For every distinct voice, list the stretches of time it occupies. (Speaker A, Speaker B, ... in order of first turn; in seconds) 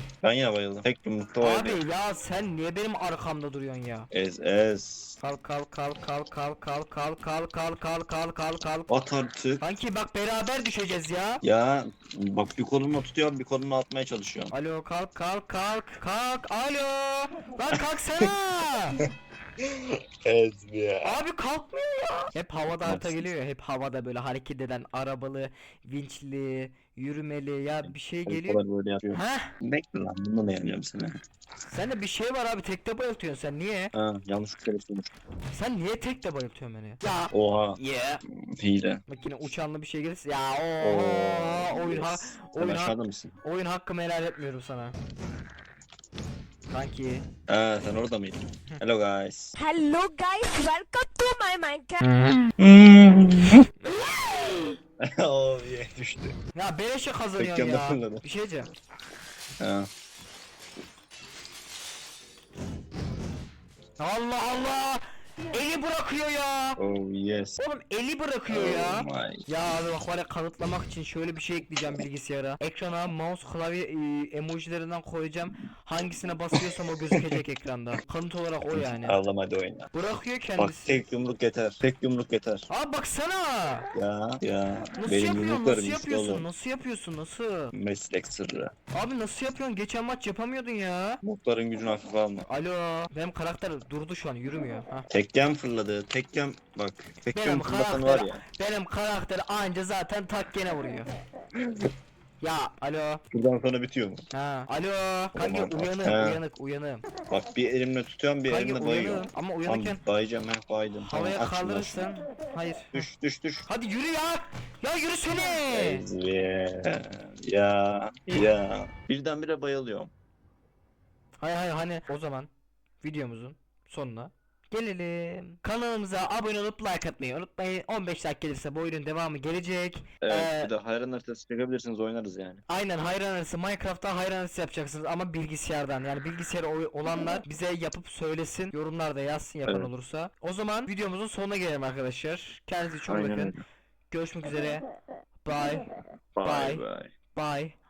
Speaker A: 0.2-1.8, 4.1-5.2, 8.9-9.7, 11.4-14.5, 17.7-18.3, 19.0-21.2, 22.7-23.3, 27.8-31.2, 33.9-35.1, 37.3-39.0, 40.8-43.4, 47.5-49.6, 52.6-53.6, 55.0-56.4, 57.4-58.2, 59.6-59.9, 66.8-67.6, 68.5-69.8, 76.5-77.4, 78.7-79.9, 80.6-82.7, 83.9-86.5, 87.7-88.7, 91.2-92.5, 95.1-98.4, 101.6-101.9, 103.3-104.3, 105.3-106.4, 107.3-112.1, 112.9-113.7, 115.4-120.1, 130.2-132.6, 139.7-139.9, 143.1-143.6, 146.3-147.1
Speaker B: 1.4-4.1, 5.2-8.9, 9.6-11.4, 14.5-19.0, 21.0-28.6, 29.1-29.5, 31.7-33.9, 35.5-38.2, 39.1-45.0, 46.7-47.3, 52.0-52.5, 53.8-54.8, 56.5-58.7, 64.0-66.8, 67.6-79.2, 79.9-81.0, 82.7-83.9, 85.0-87.7, 88.9-91.2, 92.5-95.1, 97.3-101.1, 102.4-103.2, 104.3-107.1, 108.5-110.0, 111.0-113.0, 113.7-116.0, 121.4-122.5, 123.0-130.7, 132.7-143.5, 144.1-144.8, 145.4-145.9, 146.4-147.8
Speaker C: 49.6-52.0